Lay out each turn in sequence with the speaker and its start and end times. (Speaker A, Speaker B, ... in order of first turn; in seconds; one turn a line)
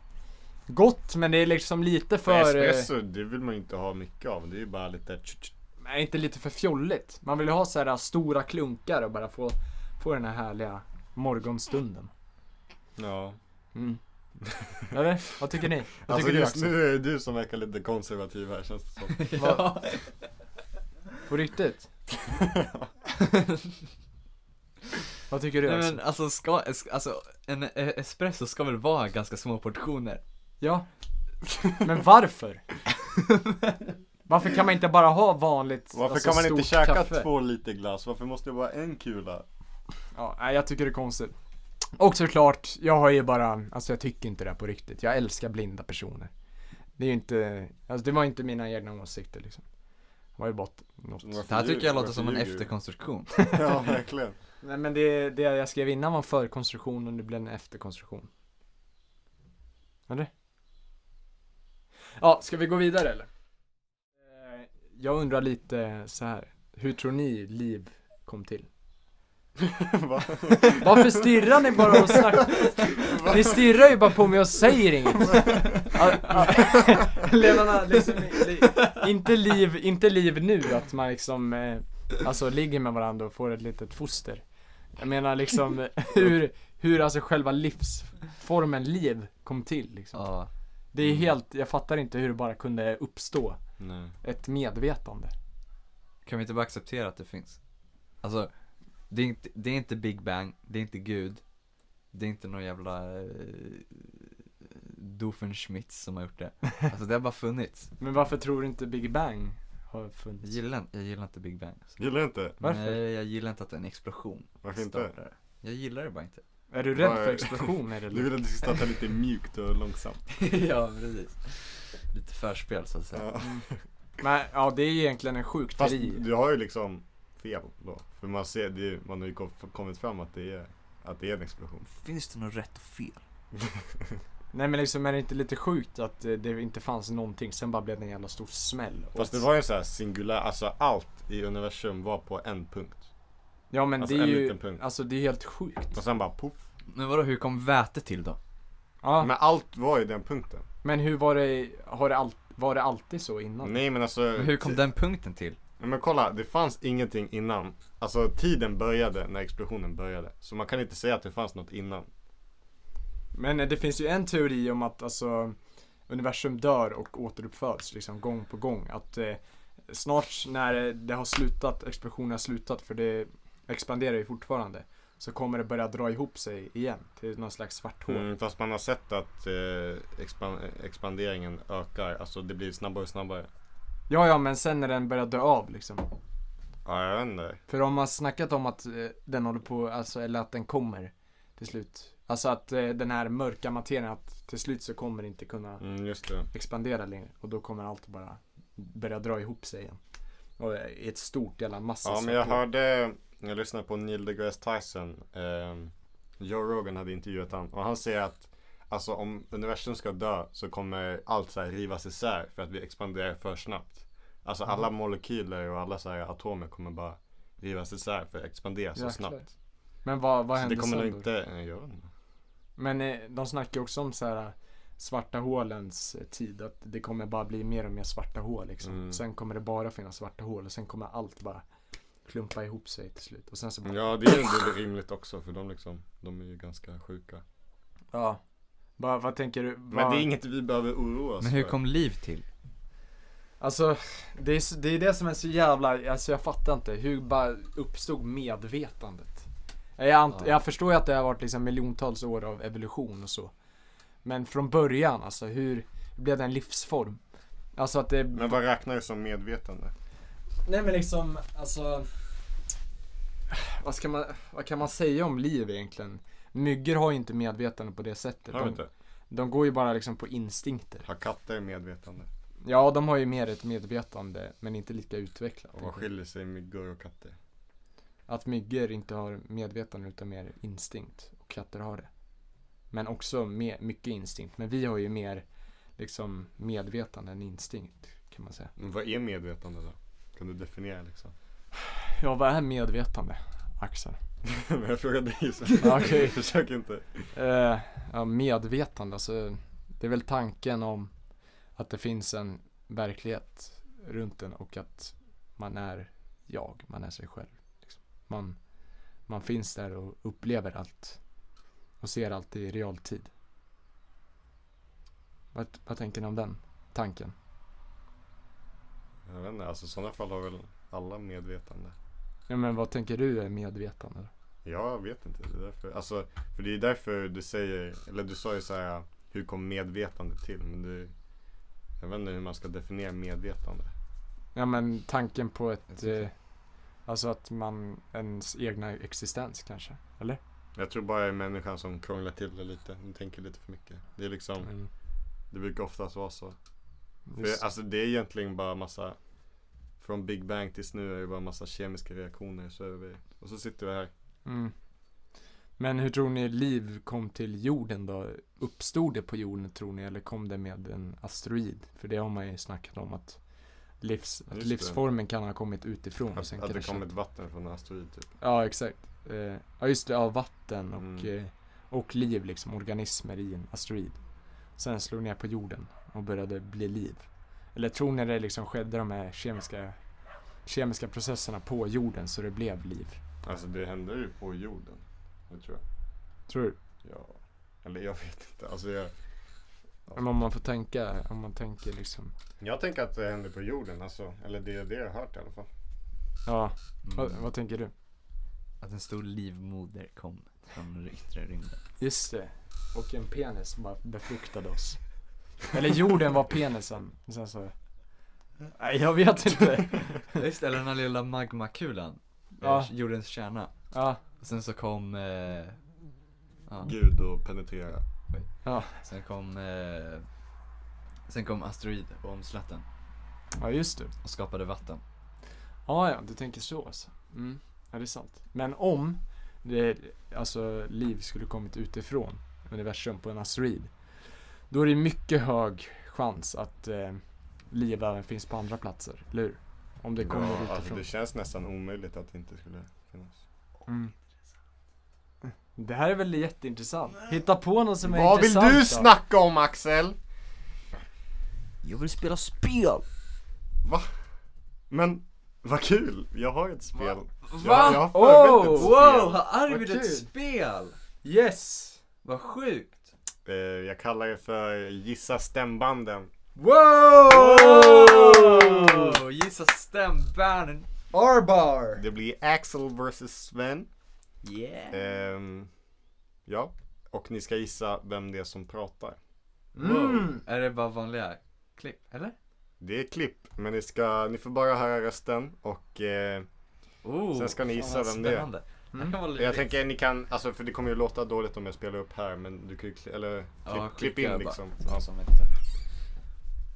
Speaker A: 0.7-2.9
Speaker B: 2.2-5.5
Speaker A: 5.8-12.1
Speaker B: 12.9-13.4
Speaker A: 13.7-14.0
Speaker B: 14.5-14.8
Speaker A: 14.9-16.7
Speaker B: 16.0-19.2
Speaker C: 19.1-20.2
Speaker A: 19.4-19.7
Speaker A: 21.2-21.9
Speaker B: 22.2-22.9
Speaker C: 23.2-23.7
Speaker A: 25.3-26.0
Speaker C: 25.6-30.2
Speaker A: 30.6-30.9
Speaker A: 31.8-32.6
Speaker A: 34.3-37.3
Speaker B: 35.9-39.5
Speaker A: 40.1-41.3
Speaker A: 42.0-46.3
Speaker A: 47.0-49.6
Speaker A: 50.4-51.4
Speaker B: 51.2-52.7
Speaker C: 51.5-53.3
Speaker B: 53.5-54.4
Speaker A: 54.6-58.3
Speaker A: 62.2-63.3
Speaker A: 64.3-68.7
Speaker B: 69.6-74.0
Speaker A: 70.7-84.4
Speaker B: 75.2-77.0
Speaker A: 85.0-90.3
Speaker C: 90.1-90.5
Speaker A: 90.9-93.6
Speaker B: 91.0-91.3
Speaker B: 93.8-94.1
Speaker A: 94.2-95.3
Speaker C: 96.2-97.6
Speaker C: 98.2-98.5
Speaker C: 99.1-101.4
Speaker C: 102.1-107.9
Speaker A: 108.0-110.5
Speaker C: 110.4-112.0
Speaker B: 112.0-112.6
Speaker C: 112.6-116.4
Speaker A: 112.6-113.0
Speaker B: 114.6-115.1
Speaker A: 116.7-118.3
Speaker B: 116.9-120.2
Speaker C: 120.3-123.3
Speaker B: 123.1-123.7
Speaker A: 123.4-123.6
Speaker A: 124.2-126.2
Speaker B: 125.8-131.8
Speaker C: 131.8-133.2
Speaker B: 133.5-134.2
Speaker A: 134.5-139.4
Speaker B: 139.2-143.1
Speaker A: 143.7-146.0
Speaker B: 144.0-144.8
Speaker B: 145.9-146.6
Speaker C: 146.9-148.4
Speaker A: 149.0-149.3
Speaker B: 149.2-150.6
Speaker A: 150.8-153.8
Speaker B: 153.6-154.8
Speaker C: 154.3-155.6
Speaker B: 155.8-162.1
Speaker A: 163.3-165.6
Speaker A: 166.1-178.2
Speaker B: 178.1-183.5
Speaker A: 184.1-186.1
Speaker B: 186.8-187.6
Speaker A: 187.7-195.8
Speaker B: 195.8-196.5
Speaker A: 196.5-200.0
Speaker A: 200.6-202.6
Speaker B: 202.0-219.5
Speaker A: 218.9-219.5
Speaker A: 220.0-221.3
Speaker B: 220.6-222.1
Speaker A: 222.8-231.6
Speaker B: 228.8-229.2
Speaker A: 232.2-234.2
Speaker B: 233.8-237.4
Speaker A: 238.1-238.4
Speaker A: 239.0-240.3
Speaker B: 239.9-241.8
Speaker C: 241.4-242.4
Speaker A: 243.6-249.5
Speaker A: 250.0-253.5
Speaker A: 254.2-257.2
Speaker A: 257.8-258.6
Speaker B: 258.3-259.9
Speaker A: 260.6-262.1
Speaker A: 263.5-268.8
Speaker B: 268.5-268.9
Speaker A: 269.3-271.1
Speaker B: 271.0-272.3
Speaker A: 272.6-276.1
Speaker B: 275.8-277.4
Speaker A: 278.3-282.1
Speaker A: 282.9-285.4
Speaker A: 286.0-288.7
Speaker B: 288.8-291.3
Speaker A: 292.2-294.2
Speaker B: 294.4-297.3
Speaker A: 295.8-296.4
Speaker A: 297.3-301.1
Speaker A: 301.8-308.6
Speaker A: 309.3-311.2
Speaker A: 312.0-313.3
Speaker A: 315.5-317.3
Speaker B: 319.2-321.9
Speaker A: 322.5-324.3
Speaker B: 324.6-331.1
Speaker B: 332.0-333.9
Speaker A: 334.5-336.3
Speaker C: 336.0-336.2
Speaker A: 337.0-340.4
Speaker B: 340.8-344.7
Speaker A: 344.6-344.9
Speaker B: 345.5-346.6
Speaker A: 347.3-347.6
Speaker B: 347.4-349.2
Speaker B: 350.0-354.1
Speaker A: 354.4-354.7
Speaker A: 355.8-363.4
Speaker A: 364.0-367.1
Speaker B: 364.5-365.0
Speaker B: 366.3-368.3
Speaker A: 368.4-374.2
Speaker B: 371.0-371.3
Speaker A: 374.8-379.9
Speaker A: 380.6-383.2
Speaker B: 383.4-385.8
Speaker A: 386.5-386.8
Speaker B: 387.0-389.1
Speaker A: 390.1-392.3
Speaker B: 392.6-395.7
Speaker A: 396.4-397.9
Speaker C: 397.0-397.4
Speaker C: 398.8-401.8
Speaker A: 402.0-405.0
Speaker A: 405.7-407.7
Speaker A: 408.8-410.3
Speaker C: 410.3-415.8
Speaker A: 412.6-412.9
Speaker A: 413.9-414.2
Speaker C: 416.7-416.9
Speaker B: 416.8-418.0
Speaker C: 418.3-420.2
Speaker A: 418.6-418.9
Speaker C: 421.3-422.8
Speaker A: 423.6-424.1
Speaker C: 424.2-425.0
Speaker A: 425.9-433.9
Speaker A: 434.7-441.0
Speaker B: 440.2-443.4
Speaker A: 443.9-444.1
Speaker A: 445.7-449.1
Speaker B: 448.0-450.2
Speaker C: 451.8-453.0
Speaker B: 453.8-454.1
Speaker B: 454.9-459.4
Speaker C: 457.0-458.1
Speaker A: 457.6-458.9
Speaker C: 458.6-461.0
Speaker A: 459.7-460.2
Speaker A: 461.2-462.0
Speaker C: 462.2-463.1
Speaker B: 463.4-466.3
Speaker A: 466.6-469.2
Speaker C: 467.3-470.9
Speaker A: 471.1-472.0
Speaker B: 472.0-473.9
Speaker C: 474.4-475.0
Speaker B: 474.9-475.7
Speaker B: 476.5-479.2
Speaker A: 479.8-480.4
Speaker C: 479.8-482.3
Speaker B: 482.8-486.5
Speaker C: 487.0-489.8
Speaker B: 487.3-488.5
Speaker B: 489.3-495.0
Speaker C: 493.6-495.5